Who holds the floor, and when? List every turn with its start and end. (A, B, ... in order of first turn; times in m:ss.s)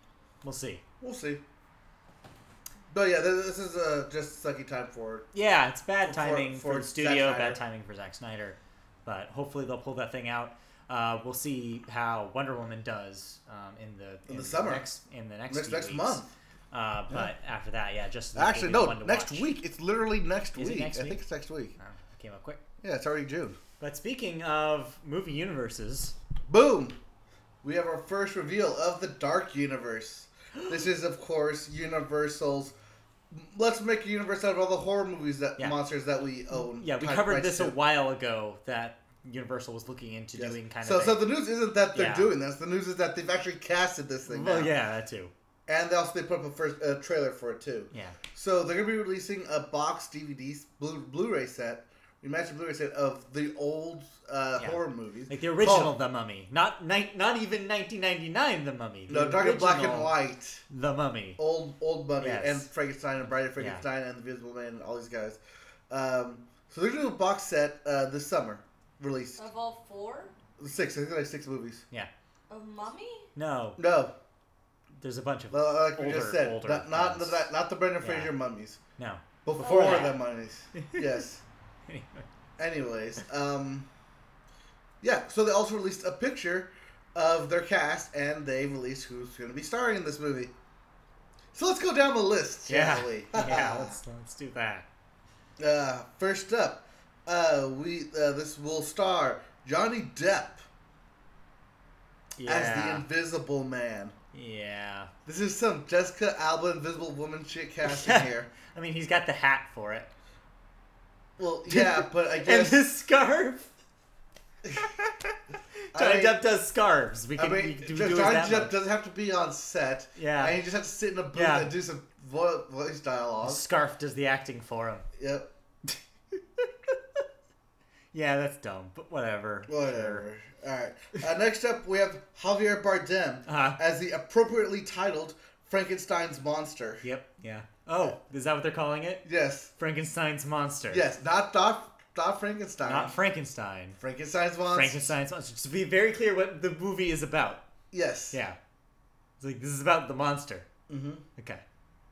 0:00.4-0:00.8 A
0:01.0-0:01.4 B
0:02.9-0:05.3 B
0:05.3-0:19.5 A
0:06.0-0:07.6 B
0:14.3-0:14.8 B
0:15.5-0:16.3 B
0:18.3-0:21.7 B
0:20.6-0:21.2 A
0:21.8-0:22.6 A
0:22.8-0:23.6 B
0:23.8-0:26.2 A
0:26.5-0:27.0 B
0:27.6-0:32.7 B
0:33.3-0:37.8 B
0:36.5-0:41.2 A
0:40.3-0:44.7 B
0:41.9-0:42.3 A
0:44.2-0:45.3 A
0:45.7-0:55.9 B
0:47.9-0:48.2 A
0:54.6-1:00.1 A
0:59.1-1:00.6 B
1:00.7-1:01.4 A
1:01.4-1:09.4 B
1:02.2-1:02.7 A
1:03.6-1:03.8 A
1:09.4-1:10.3 C
1:10.6-1:11.8 B
1:12.5-1:13.3 C
1:13.3-1:13.8 A
1:13.8-1:14.1 B
1:15.0-1:18.3 A
1:15.5-1:18.8 B
1:19.0-1:20.2 A
1:19.4-1:21.4 B
1:19.6-1:20.2 C
1:20.7-1:21.1 A
1:21.9-1:22.3 A
1:22.6-1:23.9 B
1:25.0-1:30.5 B
1:31.5-1:34.0 B
1:32.7-1:34.9 A
1:35.6-1:40.6 B
1:42.4-1:43.0 A
1:42.4-1:44.1 B
1:44.3-1:45.1 A
1:45.2-1:48.5 B
1:47.8-1:50.1 A
1:51.4-1:52.8 B
1:51.7-1:53.7 A
1:54.8-1:55.4 A
1:55.9-1:58.7 A
1:55.9-1:56.4 B
1:57.4-2:03.6 B
2:00.2-2:00.6 A
2:01.3-2:01.7 A
2:03.4-2:05.0 A
2:05.2-2:05.5 B
2:08.1-2:10.2 A
2:09.7-2:17.0 B
2:13.4-2:13.8 A
2:17.0-2:19.2 A
2:19.2-2:19.7 B
2:19.8-2:21.0 A
2:20.9-2:23.2 B
2:22.8-2:24.0 A
2:24.0-2:25.1 B
2:24.7-2:27.6 A
2:27.9-2:28.4 B
2:28.3-2:28.6 A
2:29.4-2:30.7 A
2:30.9-2:31.2 B
2:31.4-2:31.6 A